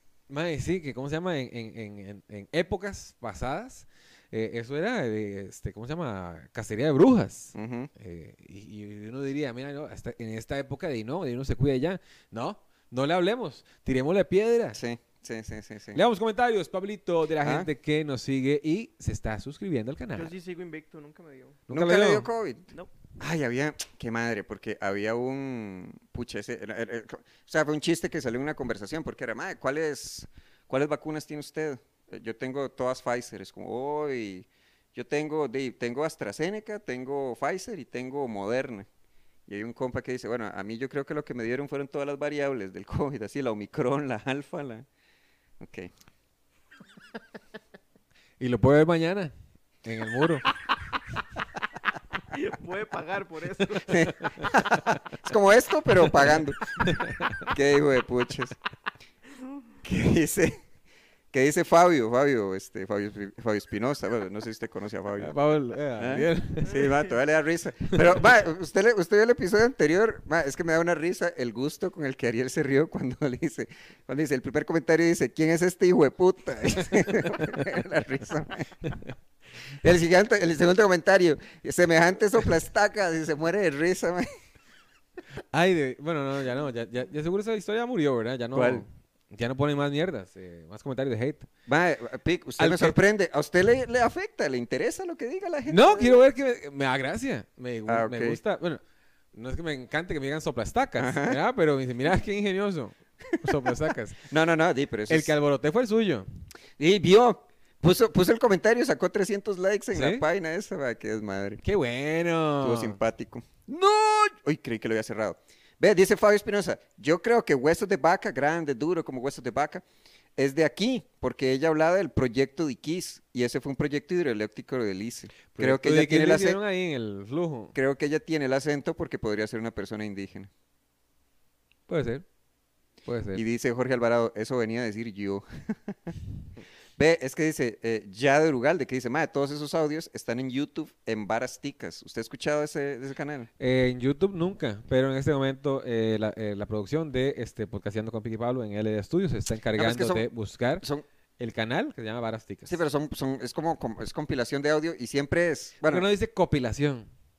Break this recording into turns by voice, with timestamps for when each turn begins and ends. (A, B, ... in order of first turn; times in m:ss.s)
0:00.3-0:14.8 A
0:07.6-0:07.9 B
0:14.7-0:16.0 B
0:15.9-0:20.4 A
0:17.4-0:17.7 B
0:20.1-0:21.6 C
0:21.7-0:22.3 A
0:21.7-0:38.9 B
0:39.5-0:44.9 B
0:45.6-0:45.9 B
0:48.4-0:49.3 A
0:49.8-0:50.5 A
0:52.3-0:54.3 C
0:53.9-0:56.7 B
0:54.2-0:54.9 A
0:56.8-0:57.5 A
0:57.5-0:58.6 B
0:59.8-1:00.6 B
1:01.3-1:05.3 B
1:05.2-1:06.9 A
1:06.0-1:18.8 B
1:19.8-1:24.3 B
1:25.5-1:31.5 A
1:28.5-1:28.8 B
1:31.7-1:36.2 B
1:32.6-1:33.0 A
1:35.7-1:38.8 A
1:37.9-1:38.4 B
1:39.3-1:44.3 A
1:41.0-1:41.4 B
1:44.3-1:45.4 B
1:45.1-1:46.3 A
1:46.8-1:51.6 B
1:49.9-1:50.2 A
1:51.6-1:53.0 A
1:52.6-1:59.8 B
2:00.4-2:06.6 B
2:05.5-2:07.8 A
2:07.7-2:10.5 B
2:11.9-2:12.2 A
2:13.0-2:13.4 A
2:13.3-2:16.1 B
2:17.0-2:23.5 B
2:23.6-2:30.8 A
2:29.8-2:30.3 B
2:31.4-2:32.8 A
2:32.7-2:36.1 B
2:35.8-2:37.1 A